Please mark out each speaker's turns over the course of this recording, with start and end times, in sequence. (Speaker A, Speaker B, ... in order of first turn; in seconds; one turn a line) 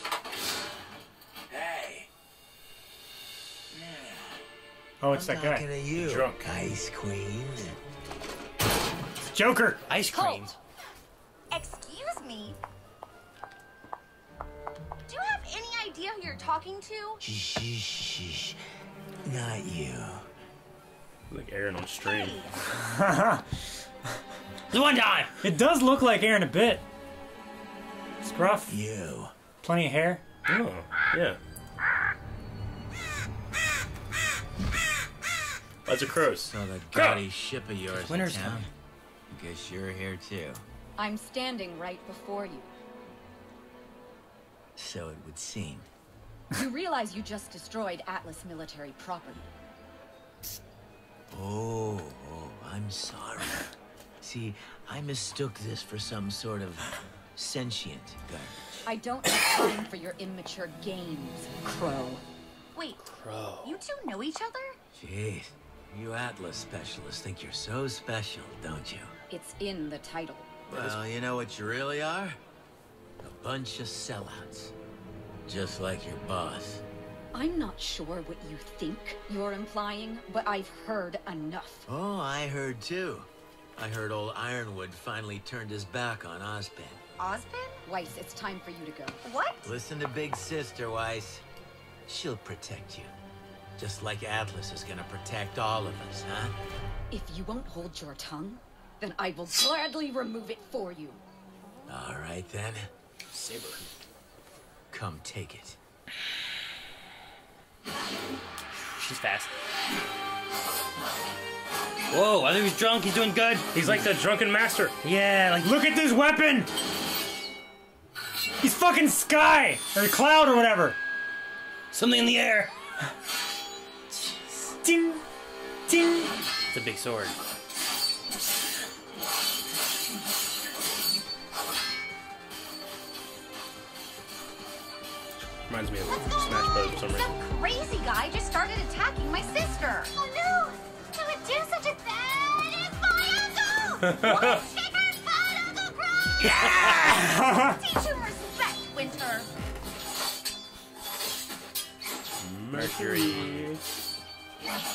Speaker A: 1.5-2.1
Speaker A: 3.7-4.3
Speaker B: 5.0-5.6
Speaker A: 5.1-7.8
Speaker C: 6.0-6.5
Speaker B: 9.2-9.8
Speaker D: 9.9-10.6
Speaker E: 10.1-10.5
Speaker E: 11.5-12.6
Speaker E: 15.1-17.2
Speaker A: 17.2-18.6
Speaker A: 19.2-20.2
Speaker C: 21.3-22.4
Speaker E: 22.1-22.5
Speaker B: 22.7-23.5
Speaker D: 24.7-25.4
Speaker B: 25.4-26.8
Speaker B: 28.2-28.8
Speaker A: 28.7-29.3
Speaker B: 29.6-30.2
Speaker C: 30.5-31.4
Speaker C: 35.9-37.2
Speaker A: 36.4-38.7
Speaker D: 37.9-38.7
Speaker A: 39.3-40.6
Speaker F: 41.0-42.7
Speaker A: 44.8-45.9
Speaker F: 46.5-49.5
Speaker A: 51.3-53.7
Speaker A: 54.2-58.8
Speaker F: 58.8-62.2
Speaker E: 62.7-63.0
Speaker D: 63.0-63.7
Speaker E: 63.6-64.8
Speaker A: 64.9-69.1
Speaker F: 69.3-70.6
Speaker A: 70.7-72.4
Speaker A: 73.2-74.7
Speaker A: 75.5-76.8
Speaker F: 77.3-81.9
Speaker A: 81.9-87.0
Speaker E: 87.2-87.8
Speaker F: 87.9-89.2
Speaker E: 89.2-89.7
Speaker A: 89.6-91.4
Speaker A: 92.0-93.1
Speaker A: 93.8-96.5
Speaker F: 97.1-101.2
Speaker A: 101.9-102.9
Speaker C: 103.3-103.8
Speaker A: 104.9-105.8
Speaker D: 108.7-109.5
Speaker D: 112.1-113.8
Speaker C: 113.7-114.9
Speaker D: 115.0-115.7
Speaker B: 115.6-116.7
Speaker B: 118.6-121.0
Speaker D: 121.9-122.7
Speaker B: 124.7-125.2
Speaker B: 125.9-126.3
Speaker D: 126.7-127.4
Speaker C: 135.5-137.3
Speaker G: 136.1-137.0
Speaker E: 137.0-140.1
Speaker G: 140.1-146.4
Speaker C: 144.0-144.6
Speaker E: 144.2-144.6
Speaker B: 146.5-147.8
Speaker E: 146.8-149.5
Speaker C: 152.7-153.8
Speaker D: 152.7-153.7